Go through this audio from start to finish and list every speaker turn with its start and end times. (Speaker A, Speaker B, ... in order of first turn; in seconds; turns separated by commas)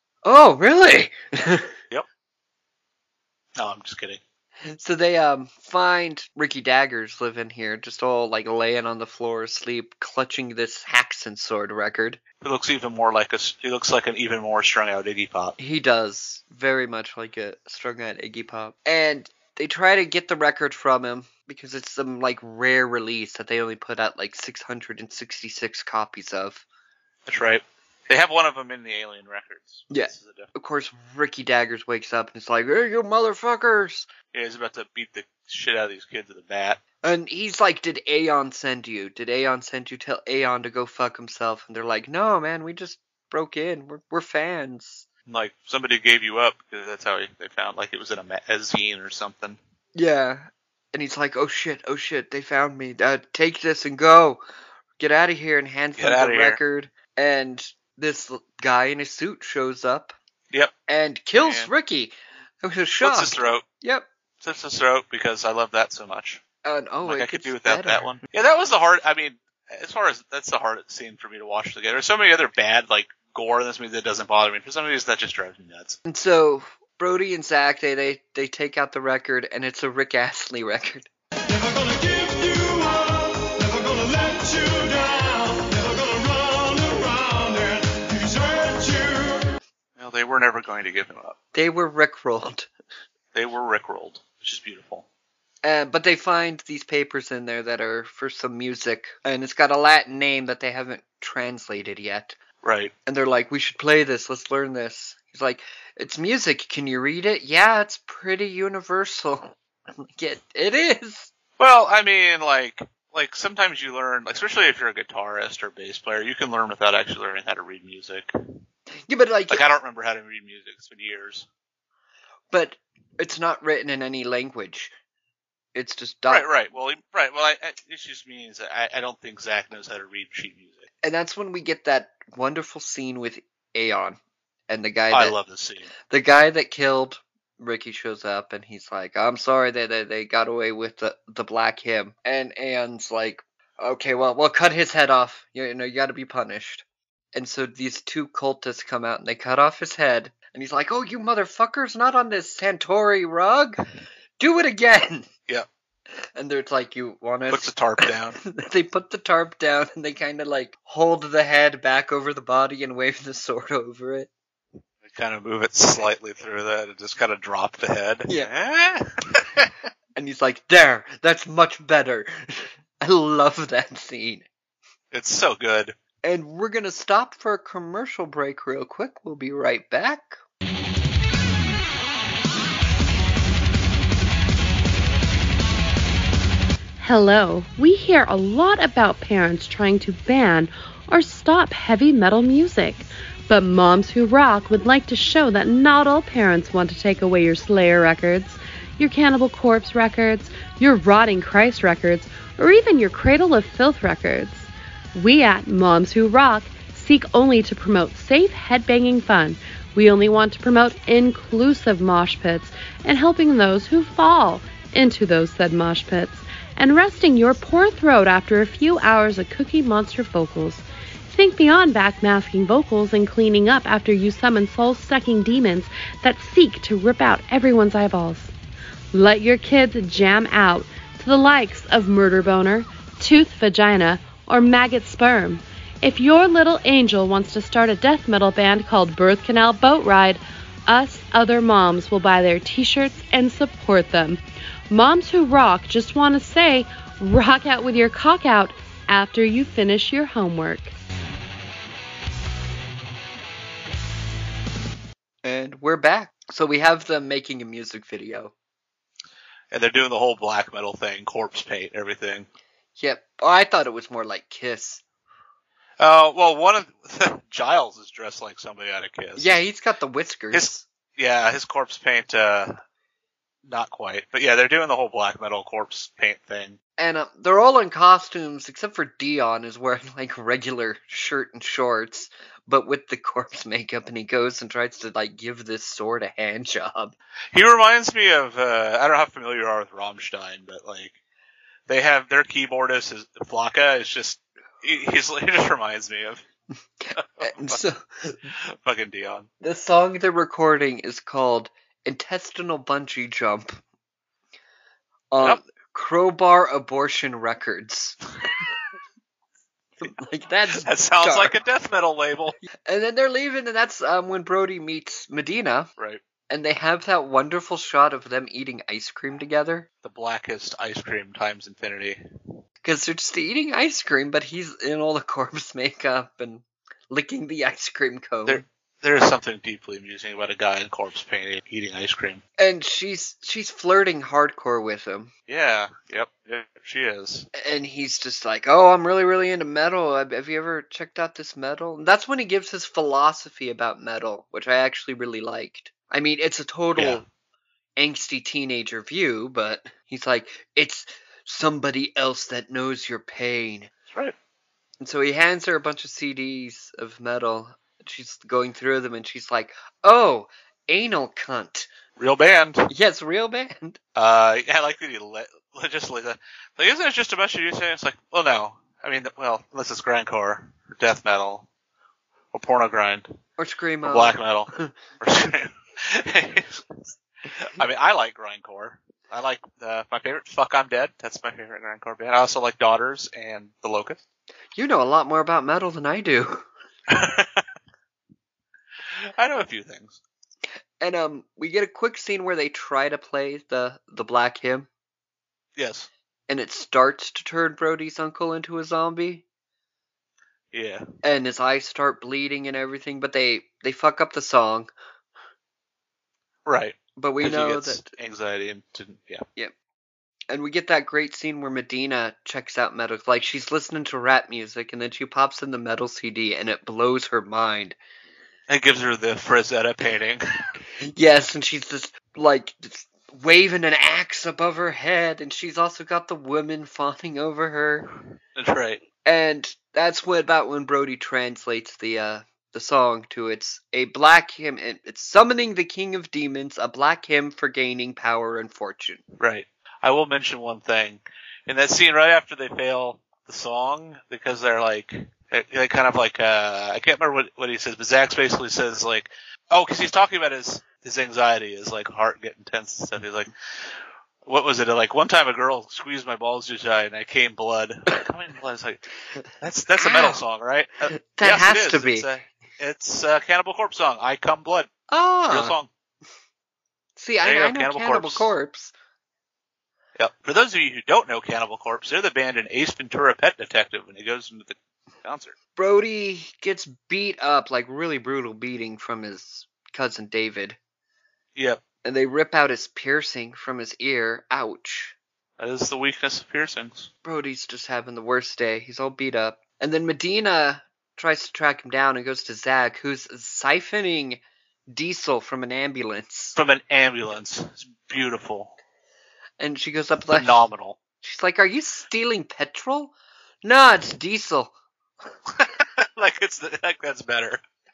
Speaker A: 0.2-1.7, Speaker B: 3.6-4.2, Speaker A: 4.7-12.2, Speaker B: 12.4-15.6, Speaker A: 15.6-26.6, Speaker B: 27.3-30.5, Speaker A: 29.9-34.1, Speaker B: 34.3-36.8, Speaker A: 37.0-45.1, Speaker B: 45.3-49.6, Speaker A: 50.0-54.4, Speaker A: 55.0-60.2, Speaker B: 56.0-56.6, Speaker A: 60.9-64.1, Speaker B: 61.4-61.7, Speaker B: 63.0-63.6, Speaker B: 64.4-66.4, Speaker A: 66.7-68.1, Speaker B: 67.0-76.0, Speaker A: 76.1-81.1, Speaker C: 81.5-89.4, Speaker B: 90.0-91.4, Speaker A: 91.5-92.7, Speaker B: 93.3-95.1, Speaker A: 95.6-102.4, Speaker B: 102.6-102.9, Speaker A: 103.1-109.5, Speaker A: 110.0-111.3, Speaker B: 111.6-118.3, Speaker A: 119.1-119.6, Speaker B: 119.5-121.5, Speaker A: 122.5-124.9, Speaker A: 125.7-126.5, Speaker B: 126.3-130.9, Speaker A: 131.0-134.2, Speaker A: 134.7-135.4, Speaker B: 135.1-135.9, Speaker A: 136.1-153.8, Speaker A: 154.4-155.3, Speaker A: 156.3-164.3, Speaker B: 157.5-158.4, Speaker B: 165.0-169.7, Speaker A: 170.2-174.5, Speaker B: 175.1-176.0, Speaker A: 176.2-180.4, Speaker D: 187.0-228.5, Speaker D: 229.1-250.9, Speaker A: 255.4-258.5, Speaker B: 259.7-262.5, Speaker A: 263.0-265.0, Speaker B: 266.0-269.6, Speaker A: 269.4-270.9, Speaker B: 270.5-272.8, Speaker B: 273.7-276.8, Speaker A: 277.0-287.1, Speaker B: 287.5-291.2, Speaker B: 291.9-296.4, Speaker A: 297.0-298.4, Speaker B: 297.2-297.8, Speaker B: 298.5-299.5, Speaker A: 299.6-303.8, Speaker A: 305.3-308.2, Speaker A: 310.0-311.6, Speaker B: 310.7-312.6, Speaker A: 312.9-315.9, Speaker B: 316.0-316.2, Speaker A: 316.5-319.9, Speaker B: 320.0-322.2, Speaker A: 322.8-328.6, Speaker B: 328.5-332.4, Speaker A: 332.6-335.3, Speaker B: 335.5-337.5, Speaker A: 337.6-347.2, Speaker B: 347.0-347.2, Speaker A: 348.0-353.9, Speaker B: 354.1-354.4, Speaker A: 355.0-361.9, Speaker B: 362.2-362.9, Speaker A: 362.9-364.0, Speaker B: 364.2-371.7, Speaker B: 372.5-373.4, Speaker A: 373.6-374.9, Speaker B: 374.0-384.2, Speaker A: 384.8-386.7, Speaker B: 387.1-387.6, Speaker B: 389.2-390.2, Speaker A: 391.0-394.9, Speaker B: 395.8-396.1, Speaker A: 396.5-399.4, Speaker B: 400.7-401.1, Speaker A: 401.2-404.9, Speaker B: 406.7-409.4, Speaker A: 407.2-408.1, Speaker A: 410.5-418.0, Speaker B: 418.7-420.4, Speaker A: 421.1-428.1, Speaker B: 428.6-429.0, Speaker A: 429.2-439.2, Speaker B: 439.4-453.9, Speaker B: 454.4-459.0, Speaker B: 459.6-464.9, Speaker A: 460.0-460.4, Speaker A: 461.2-462.3, Speaker A: 465.1-465.8, Speaker B: 465.5-465.9, Speaker A: 467.2-468.9, Speaker B: 467.4-468.5, Speaker B: 470.2-475.6, Speaker A: 475.8-480.8, Speaker B: 481.6-481.8, Speaker A: 482.0-485.1, Speaker B: 485.6-487.1, Speaker A: 487.2-496.6, Speaker B: 496.6-498.7, Speaker A: 499.6-500.6, Speaker B: 500.3-501.0, Speaker A: 501.2-503.1, Speaker A: 503.6-504.7, Speaker B: 505.6-507.6